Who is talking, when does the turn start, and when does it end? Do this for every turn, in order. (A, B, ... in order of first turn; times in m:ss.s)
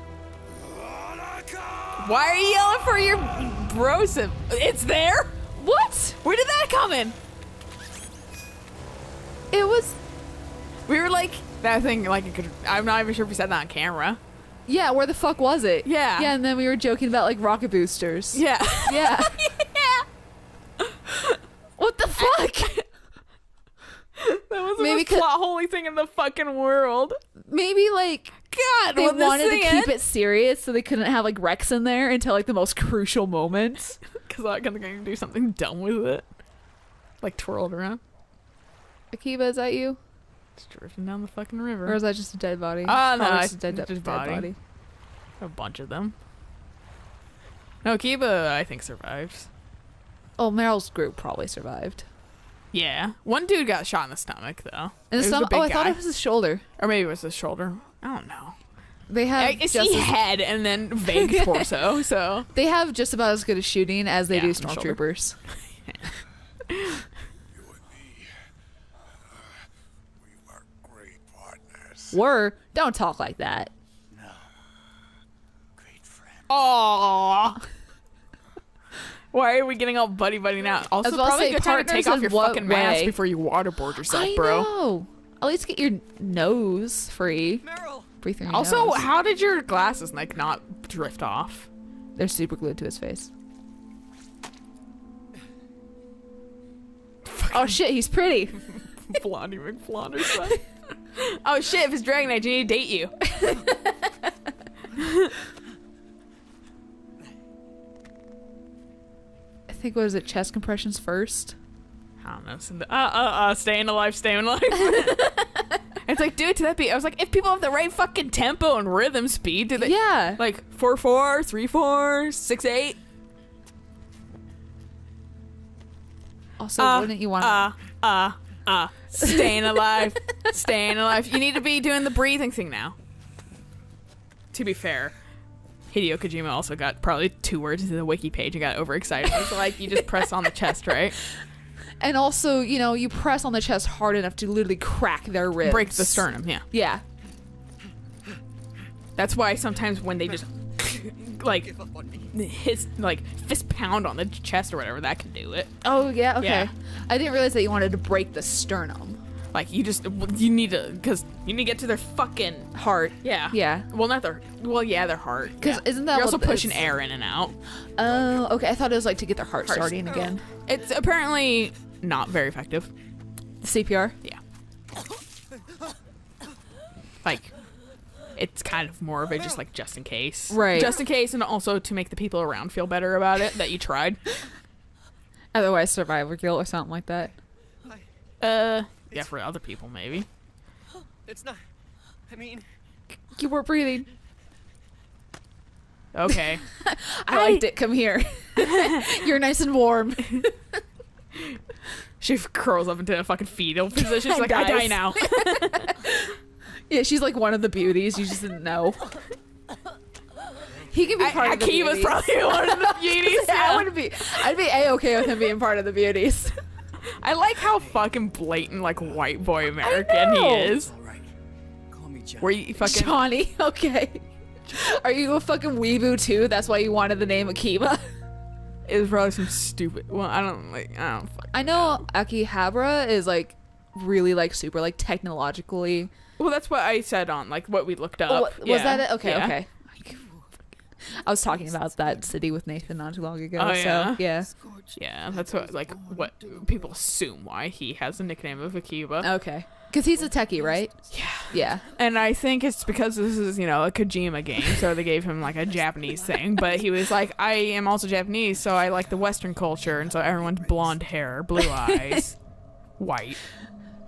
0:00.6-0:02.1 A
0:02.0-0:05.4 B
0:05.6-0:06.2 C
0:06.2-0:07.2 B
0:09.5-0:10.0 C
0:10.9-0:14.2 B
0:14.7-0:19.6 C
0:15.8-0:16.3 B
0:18.3-0:20.1 B
0:21.8-0:22.8 C
0:22.2-0:22.8 B
0:24.2-0:27.2 B
0:24.8-0:25.3 C
0:27.4-0:28.4 C
0:28.5-0:29.9 B
0:28.9-0:34.0 C
0:34.1-0:36.3 B
0:37.2-0:38.0 B
0:39.1-0:40.0 C
0:40.6-0:42.0 B
0:41.9-0:44.6 C
0:42.8-0:44.5 B
0:45.4-0:46.2 B
0:47.8-0:49.5 B
0:50.4-0:52.1 C
0:52.7-0:56.0 B
0:55.1-0:56.7 C
0:56.8-0:58.6 B
0:59.1-1:00.2 C
0:59.4-1:02.5 B
1:01.2-1:01.6 C
1:02.5-1:05.4 C
1:04.3-1:05.0 B
1:05.8-1:06.2 B
1:06.7-1:07.1 B
1:07.5-1:08.4 A
1:09.2-1:09.7 A
1:10.2-1:12.2 A
1:12.1-1:13.7 C
1:14.1-1:14.5 A
1:15.8-1:16.5 A
1:16.5-1:17.6 B
1:19.3-1:24.7 B
1:21.0-1:23.2 C
1:24.1-1:27.6 C
1:27.6-1:28.1 D
1:28.2-1:29.1 C
1:28.5-1:31.7 B
1:32.2-1:33.3 C
1:37.2-1:37.7 B
1:37.5-1:39.2 C
1:39.0-1:40.6 B
1:41.2-1:43.2 B
1:43.3-1:43.9 C
1:45.0-1:45.3 B
1:49.7-1:51.6 C
1:52.2-1:55.5 B
1:54.9-1:55.5 C
1:56.0-2:03.0 B
1:59.8-2:00.4 C
2:06.6-2:07.7 C
2:06.8-2:13.0 B
2:09.2-2:09.6 C
2:14.5-2:15.1 B
2:15.9-2:21.2 B
2:22.0-2:27.0 C
2:25.6-2:26.6 B
2:29.2-2:35.7 B
2:31.8-2:32.1 D
2:35.8-2:39.2 C
2:36.4-2:36.7 B
2:39.5-2:47.6 B
2:42.7-2:43.9 C
2:45.6-2:46.8 C
2:48.0-2:50.4 C
2:49.7-2:52.9 B
2:53.6-2:54.2 C
2:57.2-2:57.5 B
2:58.4-3:04.4 B
3:00.5-3:01.0 C
3:05.5-3:07.4 C
3:08.4-3:10.3 B
3:11.2-3:11.6 D
3:12.3-3:12.7 D
3:13.4-3:14.1 C
3:16.1-3:16.7 B
3:16.7-3:20.6 C
3:17.3-3:17.6 B
3:18.6-3:19.2 B
3:22.2-3:26.0 B
3:24.0-3:26.3 C
3:26.9-3:29.1 C
3:30.9-3:36.6 C
3:31.2-3:33.9 B
3:37.2-3:40.9 B
3:39.8-3:40.8 C
3:40.7-3:41.3 D
3:41.9-3:42.6 D
3:42.4-3:43.2 B
3:42.8-3:48.1 C
3:48.9-3:52.0 B
3:51.5-3:56.1 C
3:56.4-3:59.6 B
3:58.3-3:59.7 C
3:59.9-4:00.6 D
4:01.1-4:04.5 C
4:01.5-4:02.6 D
4:03.6-4:04.3 B
4:04.4-4:07.0 D
4:04.9-4:09.3 B
4:09.2-4:11.9 C
4:10.1-4:11.8 D
4:11.1-4:22.4 B
4:15.7-4:16.7 D
4:18.8-4:21.0 D
4:21.7-4:22.2 C
4:23.0-4:23.4 B